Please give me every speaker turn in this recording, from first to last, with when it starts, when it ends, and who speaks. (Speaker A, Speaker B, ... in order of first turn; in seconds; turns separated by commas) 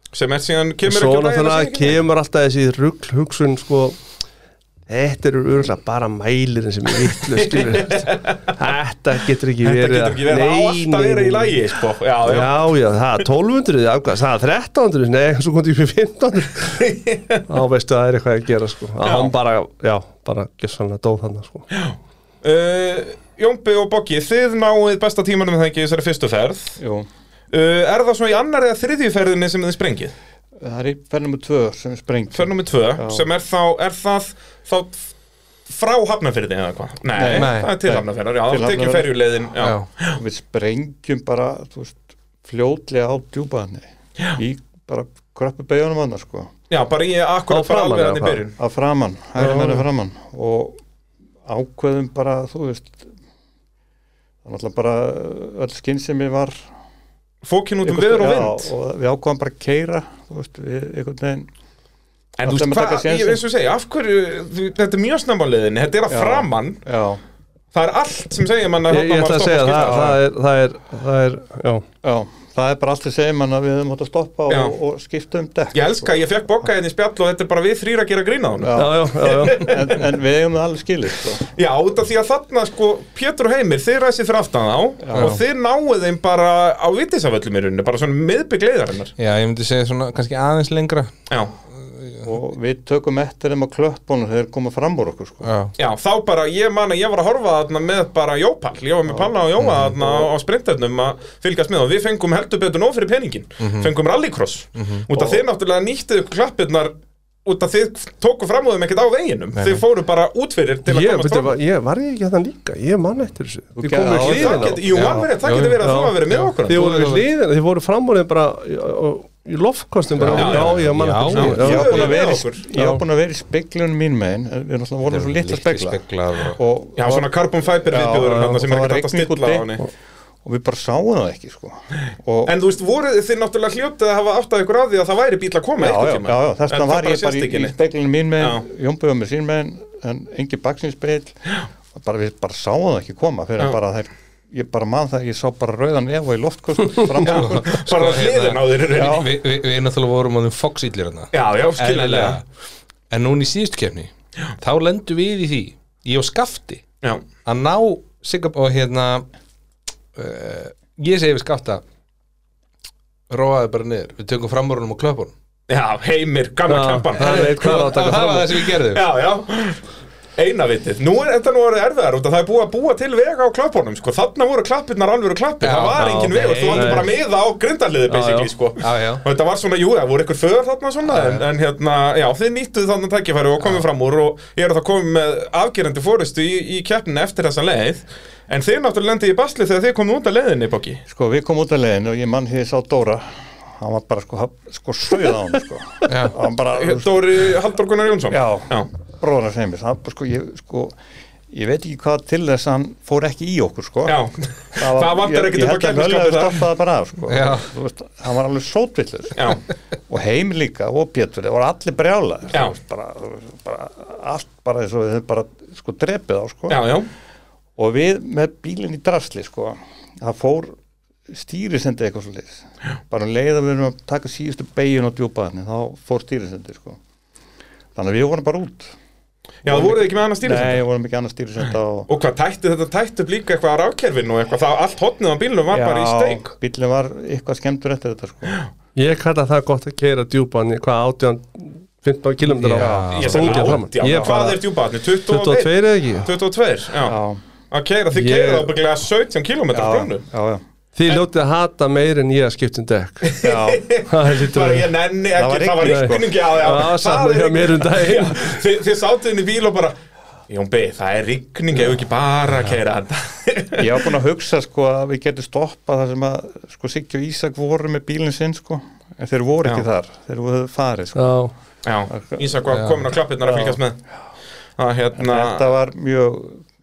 Speaker A: 0.1-2.0, Speaker B: 0.9-4.0, Speaker B: 4.9-11.6, Speaker A: 7.4-8.4, Speaker A: 9.6-12.7, Speaker B: 12.2-16.8, Speaker A: 16.8-17.4, Speaker B: 17.5-21.7, Speaker A: 19.0-19.3, Speaker A: 21.7-26.8, Speaker C: 26.8-27.1, Speaker A: 27.5-30.1, Speaker C: 30.6-33.3, Speaker A: 32.3-35.1, Speaker A: 35.7-40.2, Speaker C: 37.1-39.1, Speaker D: 37.3-38.0, Speaker D: 39.6-39.9, Speaker C: 40.1-46.5, Speaker A: 46.7-48.5, Speaker B: 47.5-48.4, Speaker C: 48.6-50.8, Speaker B: 49.4-49.8, Speaker C: 51.5-53.1, Speaker C: 54.4-56.7, Speaker A: 57.4-58.7, Speaker C: 57.8-61.5, Speaker A: 62.4-66.8, Speaker C: 62.5-63.4, Speaker C: 66.1-67.2, Speaker A: 67.7-70.2, Speaker B: 68.9-71.8, Speaker C: 72.0-76.1, Speaker A: 74.5-74.8, Speaker A: 75.7-79.9, Speaker C: 78.6-81.5, Speaker B: 78.8-79.8, Speaker A: 81.5-89.1, Speaker C: 85.0-85.4, Speaker D: 85.2-85.4, Speaker D: 89.2-91.1, Speaker D: 91.8-92.2, Speaker C: 92.2-95.5, Speaker D: 95.4-95.7, Speaker A: 95.8-106.9, Speaker C: 99.1-99.3, Speaker D: 99.6-100.0, Speaker C: 100.0-100.3, Speaker D: 103.6-103.9, Speaker D: 104.8-105.0, Speaker C: 105.1-105.4, Speaker A: 107.5-111.5, Speaker D: 109.5-109.8, Speaker B: 110.9-114.8, Speaker C: 113.8-115.3, Speaker A: 114.1-117.1, Speaker D: 114.9-117.2, Speaker B: 115.8-122.1, Speaker D: 120.2-122.2, Speaker C: 120.3-120.6, Speaker A: 120.3-122.7, Speaker C: 121.5-127.3, Speaker B: 122.7-123.0, Speaker D: 125.1-126.6, Speaker A: 127.0-129.8, Speaker C: 127.9-129.7, Speaker C: 130.4-132.5, Speaker A: 132.5-137.7, Speaker C: 135.8-141.4, Speaker C: 141.9-147.8, Speaker D: 147.2-152.4, Speaker A: 147.2-149.3, Speaker C: 148.9-149.3, Speaker A: 151.3-152.4, Speaker D: 153.1-156.8, Speaker D: 157.4-159.3, Speaker D: 160.2-161.8, Speaker D: 163.3-165.3, Speaker A: 165.7-167.8, Speaker B: 166.7-168.7, Speaker D: 167.2-169.0, Speaker A: 168.8-169.8, Speaker A: 170.4-191.0, Speaker D: 175.6-177.1, Speaker B: 176.0-177.1, Speaker B: 178.1-178.5, Speaker D: 178.8-179.2, Speaker D: 181.1-181.4, Speaker C: 191.1-197.5, Speaker D: 196.1-196.3, Speaker A: 196.7-198.9, Speaker C: 198.3-201.0, Speaker C: 201.5-204.2, Speaker A: 204.1-206.7, Speaker C: 204.8-209.6, Speaker D: 207.3-207.7, Speaker A: 209.3-209.6, Speaker C: 210.1-216.9, Speaker A: 216.7-217.1, Speaker C: 217.8-220.8, Speaker C: 221.3-227.0, Speaker C: 227.9-228.9, Speaker A: 229.6-230.8, Speaker C: 229.7-232.1, Speaker A: 232.1-236.5, Speaker C: 235.7-238.6, Speaker B: 239.0-244.6, Speaker D: 242.5-243.8, Speaker C: 242.8-244.4, Speaker A: 243.1-247.2, Speaker B: 245.3-246.3, Speaker C: 247.0-247.4, Speaker A: 247.7-250.2, Speaker B: 248.1-248.7, Speaker C: 249.7-250.6, Speaker B: 250.9-253.3, Speaker A: 253.2-259.9, Speaker C: 253.4-253.9, Speaker B: 254.1-254.9, Speaker C: 255.3-256.4, Speaker B: 255.8-258.6, Speaker A: 260.5-264.0, Speaker C: 263.8-271.4, Speaker B: 271.2-271.5, Speaker A: 271.8-274.0, Speaker C: 272.1-272.6, Speaker D: 272.7-273.1, Speaker C: 273.4-273.8, Speaker A: 274.8-275.6, Speaker C: 275.1-276.6